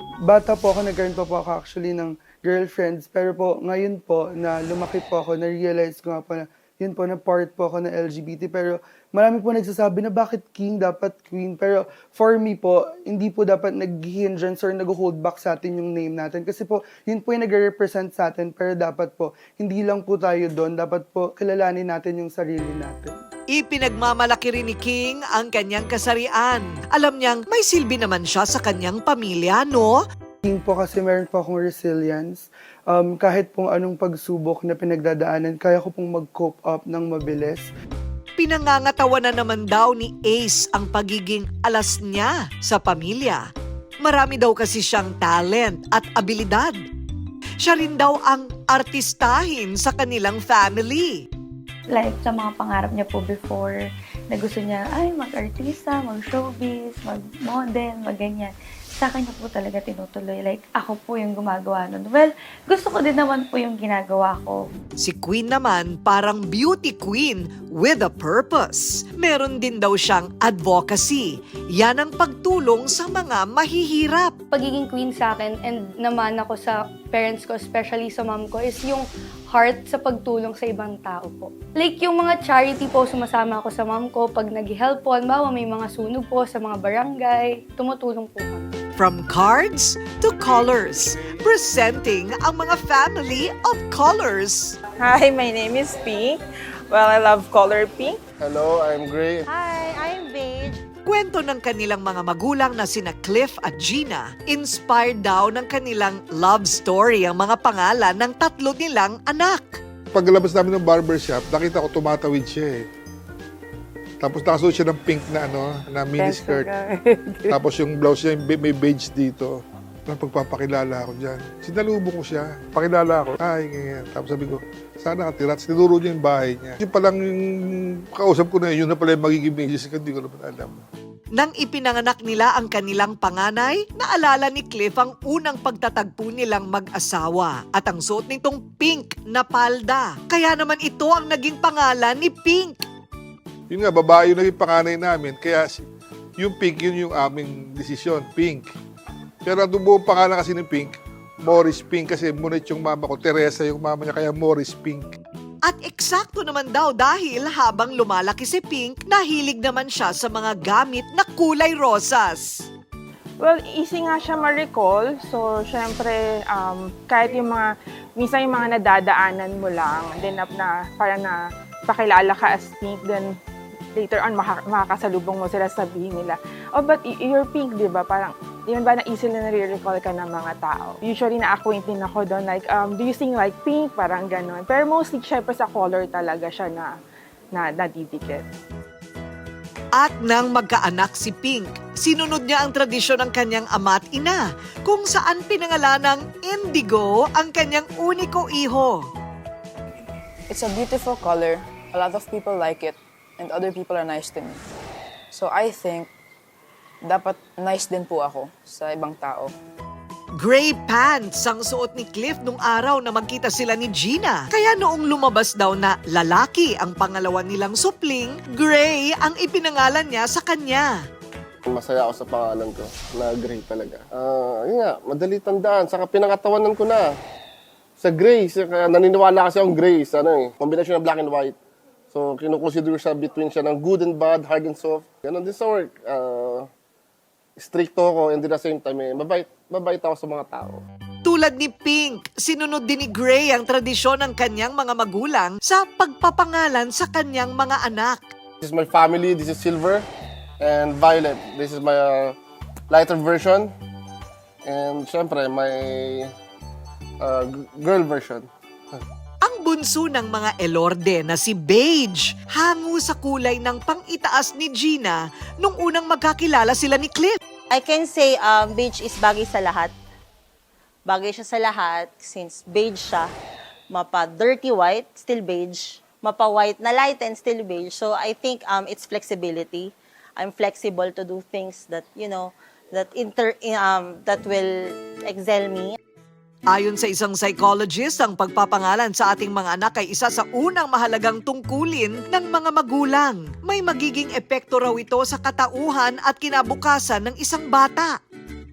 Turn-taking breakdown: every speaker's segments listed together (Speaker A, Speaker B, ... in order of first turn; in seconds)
Speaker A: 0.3-23.1, 30.4-37.7
Speaker B: 23.5-30.0, 38.4-43.4, 44.0-46.8, 47.6-51.2, 65.0-74.3, 89.0-94.7, 101.0-109.8, 131.3-142.8, 155.7-162.6, 190.0-199.1, 210.4-220.9, 241.2-248.2, 259.4-267.4, 286.7-298.1
Speaker C: 51.9-64.7
Speaker D: 74.5-88.8
Speaker E: 95.0-96.4, 96.9-98.2, 163.4-173.3, 173.9-186.9, 187.5-188.4
Speaker F: 98.4-99.4, 221.7-227.1, 228.0-231.6, 232.1-236.7, 237.6-240.8, 248.6-250.0, 250.6-252.3, 252.9-253.7, 254.7-256.2, 257.2-259.0
Speaker G: 99.5-100.6, 267.7-269.9, 271.1-273.3, 273.9-286.0
Speaker H: 110.1-112.8, 114.2-116.7, 117.5-119.6, 120.1-127.4, 128.1-130.8, 143.7-145.8, 146.4-148.7, 149.4-155.1
Speaker I: 116.7-117.0, 200.5-204.6, 205.3-206.1, 207.1-209.5